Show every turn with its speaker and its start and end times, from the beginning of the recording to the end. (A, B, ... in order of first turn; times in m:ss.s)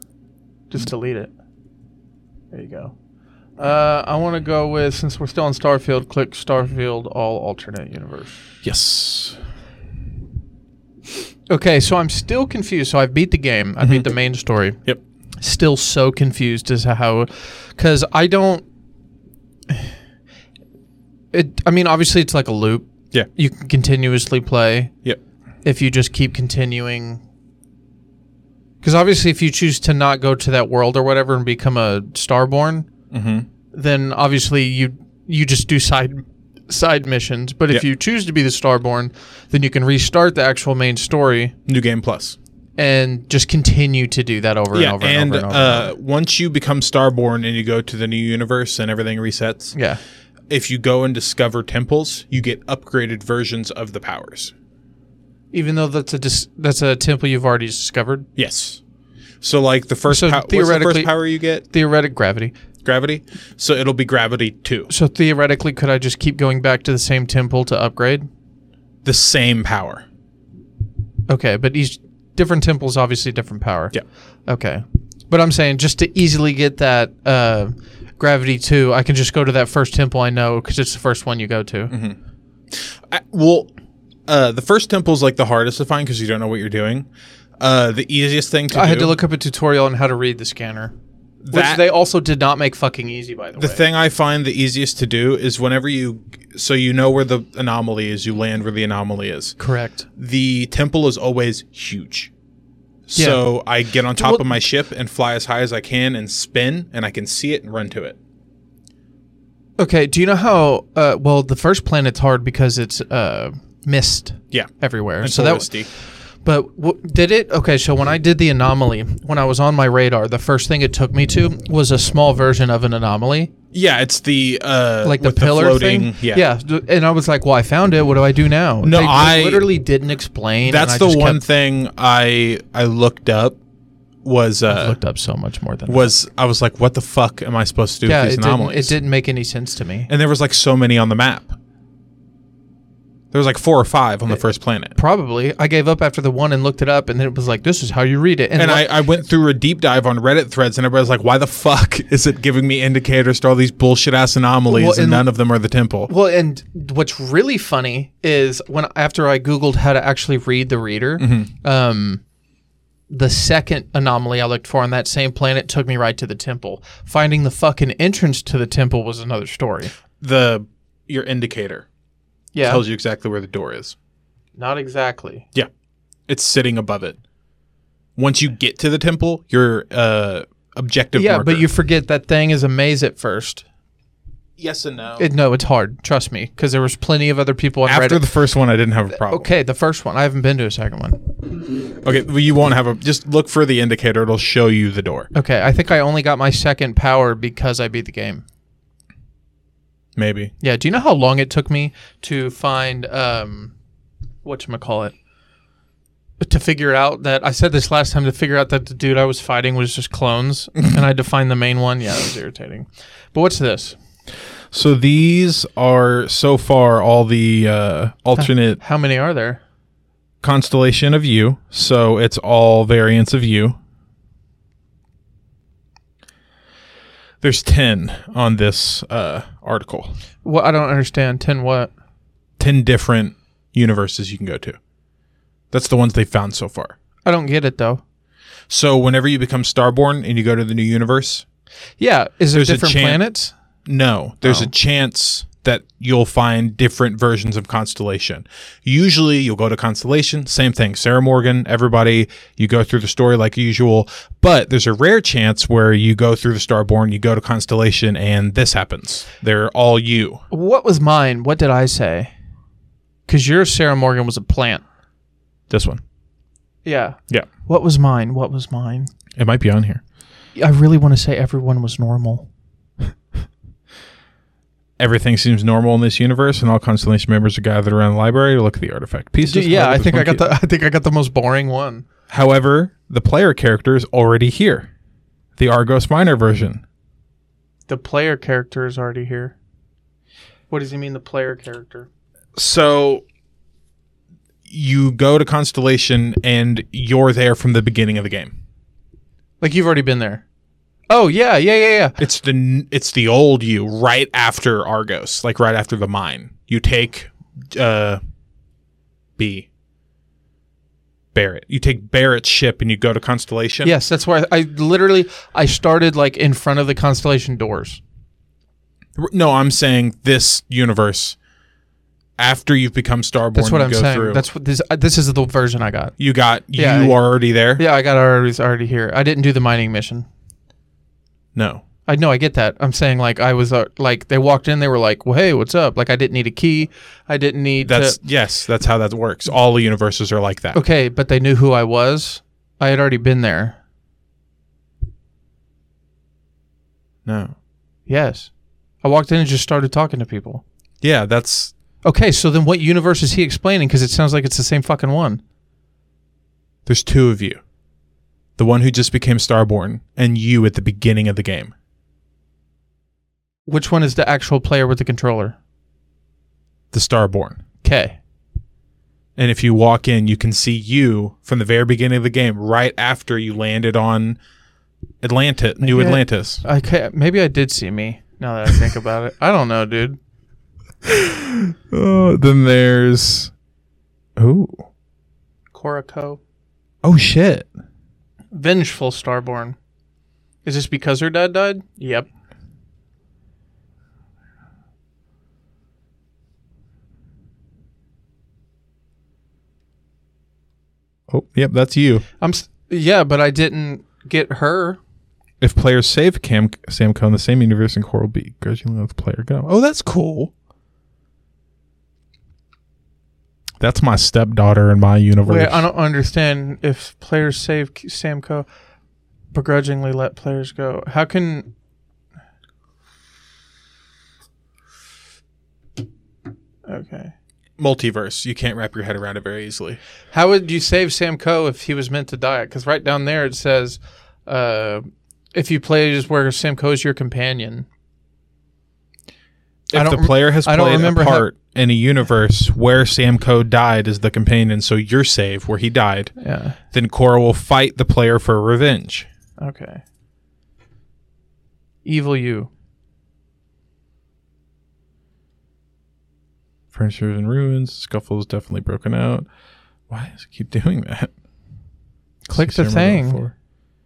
0:00.7-0:01.3 A
0:02.5-0:03.0 A
0:03.6-0:08.4 A
0:08.6-0:09.4 B
0:11.5-0:14.8 A
0:13.8-0:14.1 B
0:15.4-0:18.6 A
0:21.3-0:24.9 A
0:25.6-0:27.2 A
0:28.8-0:32.9 A
0:33.1-0:33.5 B
0:33.7-0:41.5 A
0:41.6-0:42.4 B
0:42.8-0:45.9 A
0:44.7-0:49.8 B
0:49.7-0:50.0 A
0:50.5-0:54.5 B
0:55.5-0:58.3 A
0:58.4-0:58.8 B
0:59.4-1:01.6 B
1:00.1-1:01.1 A
1:01.6-1:02.5 A
1:02.8-1:04.9 B
1:04.9-1:08.3 A
1:09.0-1:10.0 B
1:11.3-1:22.0 A
1:21.9-1:22.2 B
1:22.7-1:23.7 B
1:24.3-1:27.1 B
1:27.6-1:29.2 B
1:28.7-1:30.9 A
1:31.4-1:31.8 B
1:31.5-1:33.8 A
1:33.6-1:39.6 B
1:39.6-1:40.1 A
1:40.1-1:42.3 B
1:43.1-1:48.2 B
1:43.1-1:43.5 A
1:44.1-1:44.5 A
1:49.8-1:55.7 A
1:54.5-1:55.9 B
1:56.4-2:03.5 A
2:03.7-2:06.4 B
2:05.0-2:11.4 A
2:08.8-2:09.7 B
2:10.6-2:13.6 B
2:14.2-2:15.0 B
2:14.7-2:16.1 A
2:15.9-2:19.0 B
2:18.0-2:20.1 A
2:20.1-2:21.6 B
2:23.3-2:24.9 B
2:25.0-2:28.9 A
2:28.6-2:36.1 B
2:34.7-2:35.3 A
2:36.1-2:42.2 A
2:41.2-2:41.5 B
2:43.1-2:49.9 A
2:50.2-2:51.9 B
2:52.5-2:52.8 A
2:52.6-2:54.0 B
2:54.6-2:55.4 A
2:56.3-2:57.2 B
2:58.2-3:01.6 B
3:01.1-3:03.6 A
3:04.6-3:05.3 B
3:05.2-3:08.3 A
3:07.9-3:09.5 B
3:09.1-3:11.2 A
3:12.0-3:15.3 B
3:15.3-3:18.4 A
3:20.2-3:20.5 B
3:20.6-3:23.7 A
3:24.4-3:25.1 A
3:26.4-3:34.0 A
3:34.7-3:38.8 B
3:38.4-3:39.6 A
3:40.4-3:43.8 B
3:47.4-3:50.2 B
3:50.4-3:51.9 A
3:52.6-3:54.8 B
3:55.7-3:57.0 B
3:57.2-3:58.0 A
3:58.7-4:01.4 B
4:02.0-4:03.6 A
4:02.5-4:03.2 B
4:03.9-4:20.4 B
4:04.4-4:04.7 A
4:20.5-4:22.3 A
4:23.3-4:24.8 A
4:25.7-4:26.0 B
4:26.8-4:29.1 A
4:29.4-4:30.0 B
4:30.6-4:32.5 A
4:35.0-4:40.4 B
4:39.4-4:42.0 A
4:42.3-4:44.9 B
4:45.6-4:46.8 B
4:47.9-4:49.6 A
4:50.7-4:52.1 A
4:52.6-4:53.2 B
4:54.7-4:58.6 B
4:59.6-5:00.4 A
5:01.1-5:02.2 A
5:02.2-5:08.2 B
5:09.4-5:09.7 B
5:11.3-5:13.9 B
5:13.8-5:18.0 A
5:19.2-5:21.4 B
5:22.4-5:24.5 B
5:23.6-5:26.1 A
5:26.2-5:27.8 B
5:26.7-5:27.2 A
5:27.7-5:30.3 A
5:31.6-5:31.8 B
5:32.1-5:38.2 A
5:37.8-5:40.8 B
5:40.7-5:43.8 A
5:47.2-5:47.6 B
5:48.1-5:50.6 A
5:51.0-5:51.7 B
5:52.0-5:55.4 A
5:56.9-5:57.6 B
5:58.6-6:01.7 B
6:03.7-6:05.6 A
6:06.9-6:07.6 B
6:07.8-6:08.2 A
6:09.4-6:14.4 B
6:15.2-6:16.6 B
6:15.8-6:20.2 A
6:21.0-6:23.5 B
6:24.4-6:24.9 B
6:25.7-6:26.4 A
6:27.0-6:27.7 B
6:28.5-6:29.8 A
6:30.6-6:32.3 A
6:41.3-6:42.2 B
6:42.4-6:45.0 A
6:45.6-6:50.5 B
6:53.8-6:55.9 B
6:55.4-6:58.7 A
6:59.5-7:01.7 A
7:06.9-7:07.3 A
7:07.8-7:10.0 B
7:10.3-7:17.9 A
7:19.9-7:26.4 B
7:19.9-7:21.5 A
7:26.4-7:26.8 A
7:26.9-7:29.3 B
7:29.6-7:30.0 A
7:32.0-7:32.7 A
7:36.9-7:39.5 B
7:40.1-7:41.3 B
7:42.5-7:43.4 A
7:42.5-7:43.5 B